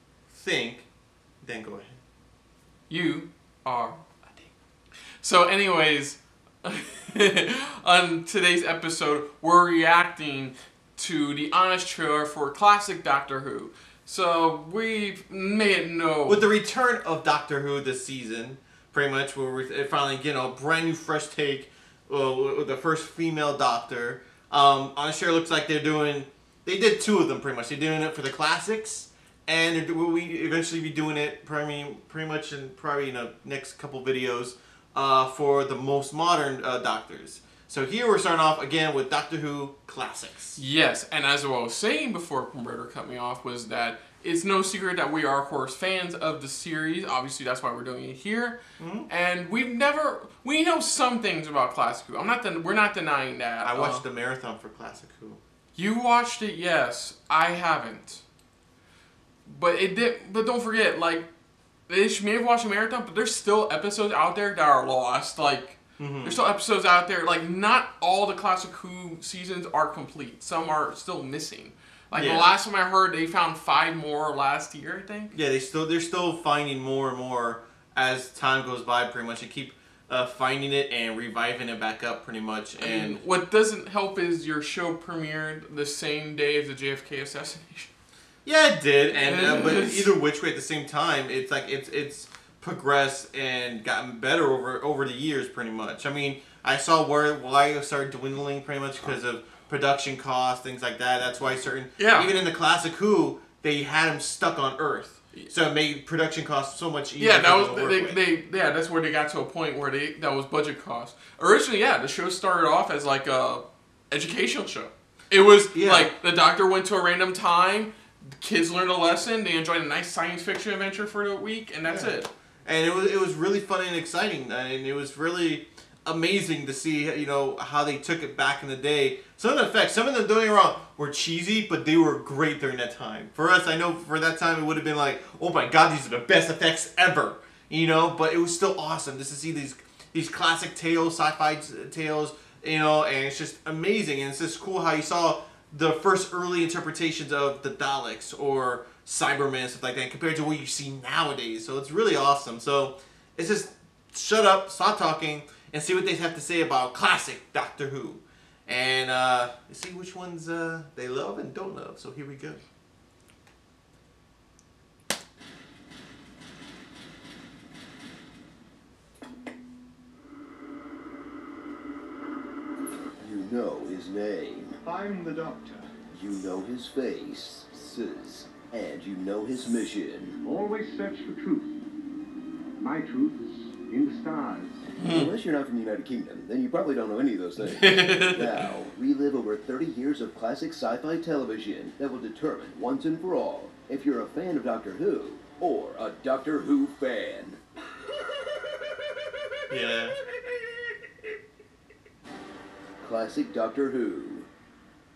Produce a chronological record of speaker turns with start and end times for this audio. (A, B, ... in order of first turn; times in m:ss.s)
0:00.3-0:00.9 A
0:01.4-0:02.0 A
0:02.9-0:04.0 B
0:05.2-0:16.4 B
0:16.3-0:40.6 A
0:40.6-0:54.0 B
0:48.8-0:49.1 A
0:53.6-0:55.4 A
0:55.8-0:58.2 B
0:59.5-1:01.3 B
1:01.9-1:15.3 B
1:06.0-1:06.4 A
1:12.1-1:12.5 A
1:15.3-1:23.2 A
1:22.8-1:27.9 B
1:28.4-1:48.2 A
1:29.2-1:30.1 B
1:42.0-1:42.3 B
1:47.2-2:02.3 B
1:55.7-1:56.1 A
2:01.8-2:42.6 A
2:53.2-2:54.8 C
2:54.8-2:56.0 D
2:56.1-3:00.4 C
3:00.4-3:01.7 D
3:02.8-3:04.8 D
3:05.0-3:05.3 B
3:05.1-3:17.6 C
3:07.6-3:08.7 B
3:19.7-3:20.2 A
3:23.0-3:24.5 C